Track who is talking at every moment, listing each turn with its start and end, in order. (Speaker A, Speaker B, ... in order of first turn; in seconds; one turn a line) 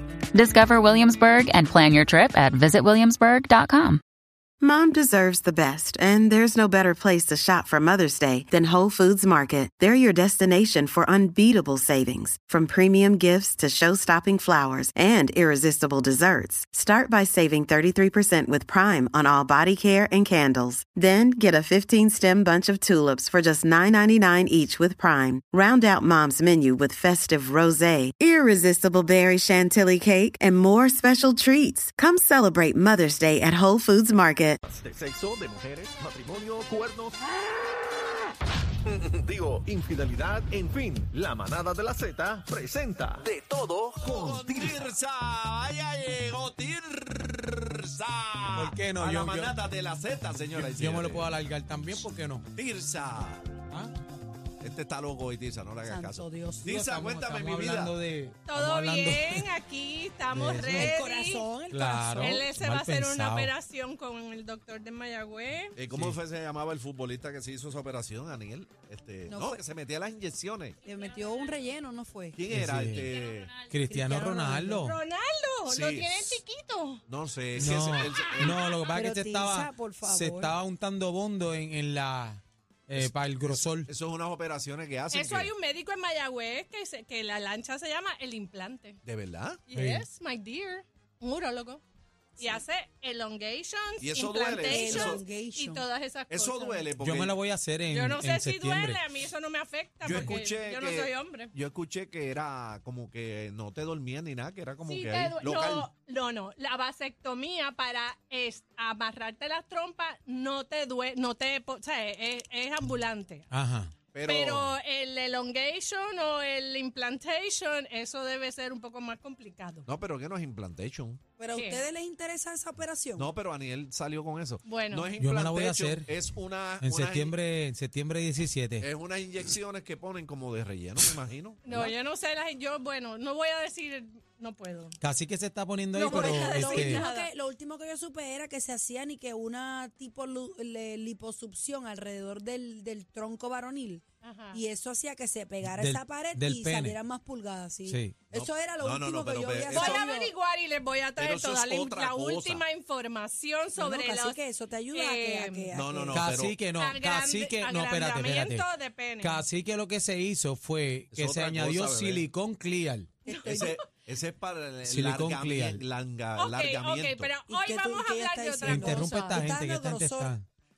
Speaker A: 0.3-4.0
Speaker B: 4.6-34.6
Speaker C: 34.6-37.1
Speaker C: 38.9-44.9
Speaker D: 44.0-51.4
Speaker E: 48.5-49.6
Speaker E: 50.5-52.5
Speaker D: 52.5-53.6
Speaker E: 53.7-53.9
Speaker D: 54.6-57.9
Speaker F: 55.8-56.8
Speaker E: 56.6-59.5
Speaker G: 58.5-61.5
Speaker E: 60.3-61.0
Speaker F: 60.7-62.4
Speaker E: 61.7-63.5
Speaker G: 62.1-65.8
Speaker D: 65.8-70.8
Speaker E: 65.9-66.2
Speaker F: 69.3-69.6
Speaker F: 70.8-72.5
Speaker D: 72.3-73.6
Speaker E: 72.5-75.0
Speaker F: 73.8-74.9
Speaker G: 74.8-77.0
Speaker D: 75.7-76.4
Speaker D: 77.1-78.6
Speaker E: 77.5-83.9
Speaker F: 78.9-80.6
Speaker D: 83.0-85.5
Speaker G: 85.1-89.0
Speaker D: 89.0-89.6
Speaker G: 89.7-91.8
Speaker E: 89.7-90.0
Speaker G: 92.4-96.9
Speaker D: 94.0-95.2
Speaker F: 94.6-95.8
Speaker D: 96.3-97.3
Speaker E: 97.0-99.0
Speaker G: 97.9-101.5
Speaker D: 100.0-105.9
Speaker G: 104.8-113.5
Speaker E: 113.5-114.0
Speaker D: 114.1-114.8
Speaker G: 114.2-119.9
Speaker D: 119.9-121.2
Speaker F: 121.4-123.3
Speaker G: 121.5-121.8
Speaker D: 123.2-127.3
Speaker G: 124.6-125.1
Speaker E: 125.2-126.1
Speaker E: 126.8-128.9
Speaker D: 128.8-131.9
Speaker G: 131.6-135.0
Speaker E: 135.0-137.0
Speaker G: 135.9-137.3
Speaker F: 136.0-150.3
Speaker G: 144.2-144.6
Speaker E: 145.7-147.0
Speaker E: 147.8-148.3
Speaker D: 148.3-150.0
Speaker G: 149.7-154.4
Speaker D: 151.2-152.6
Speaker F: 153.7-156.3
Speaker G: 154.9-155.7
Speaker D: 155.7-156.6
Speaker E: 156.1-158.7
Speaker G: 156.7-159.4
Speaker E: 159.2-163.2
Speaker D: 161.1-162.2
Speaker F: 163.2-163.8
Speaker G: 163.2-163.8
Speaker D: 163.4-167.3
Speaker E: 164.8-165.8
Speaker G: 166.4-169.4
Speaker F: 167.4-170.3
Speaker E: 168.6-170.4